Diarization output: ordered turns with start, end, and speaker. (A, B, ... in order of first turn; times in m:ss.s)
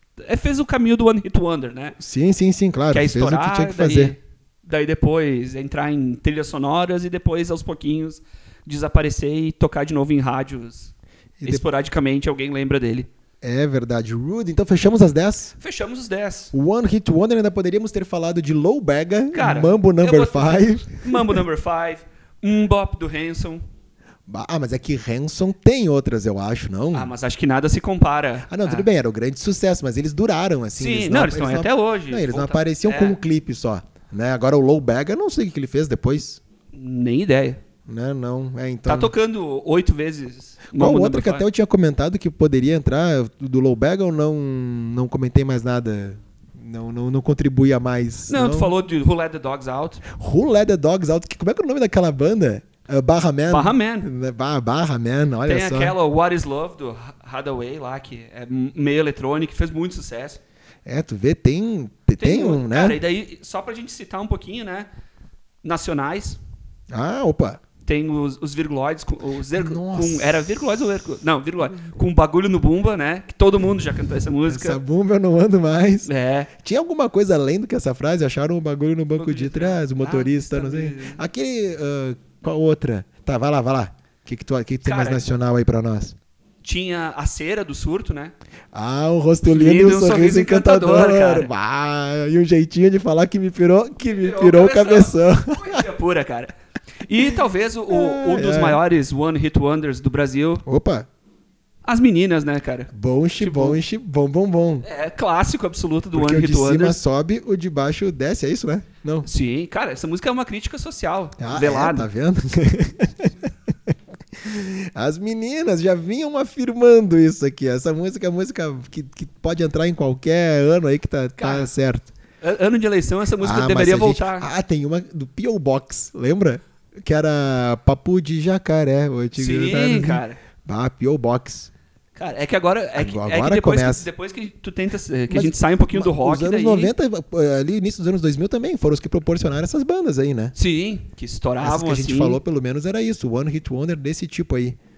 0:00.2-0:02.0 A
0:02.0-0:04.1 B
0:02.9-0:10.9 A
0:11.4-0:11.6 B
0:11.4-0:13.1 A
0:13.4-0:15.5 B
0:15.6-0:16.5 A
0:16.5-0:21.4 B
0:19.3-0:23.6 A
0:24.3-0:27.1 B
0:26.9-0:28.9 A
0:28.5-0:36.4 B
0:30.7-0:33.2 A
0:36.7-0:37.6 A
0:37.9-0:39.1 B
0:38.8-0:41.4 A
0:40.7-0:48.7 B
0:48.3-0:50.0 A
0:50.0-0:56.0 B
0:53.5-0:54.1 A
0:55.4-1:00.4 A
1:00.8-1:03.0 B
1:02.2-1:04.9 A
1:05.6-1:06.4 A
1:06.9-1:07.6 B
1:07.8-1:14.8 A
1:09.5-1:10.4 B
1:14.5-1:26.2 B
1:16.0-1:16.5 A
1:19.2-1:21.2 A
1:24.8-1:25.2 A
1:26.6-1:28.3 A
1:28.7-1:35.8 B
1:29.5-1:31.5 A
1:34.1-1:36.5 A
1:37.0-1:40.6 A
1:37.9-1:38.8 B
1:40.6-1:41.1 B
1:41.8-1:43.8 A
1:42.9-1:44.8 B
1:44.8-1:47.0 A
1:46.1-1:49.3 B
1:49.2-1:52.1 A
1:51.4-2:02.1 B
2:01.4-2:01.7 A
2:02.4-2:04.5 A
2:03.4-2:11.7 B
2:09.4-2:10.4 A
2:12.2-2:16.9 A
2:13.0-2:14.1 B
2:15.3-2:20.5 B
2:20.5-2:22.4 A
2:21.6-2:24.8 B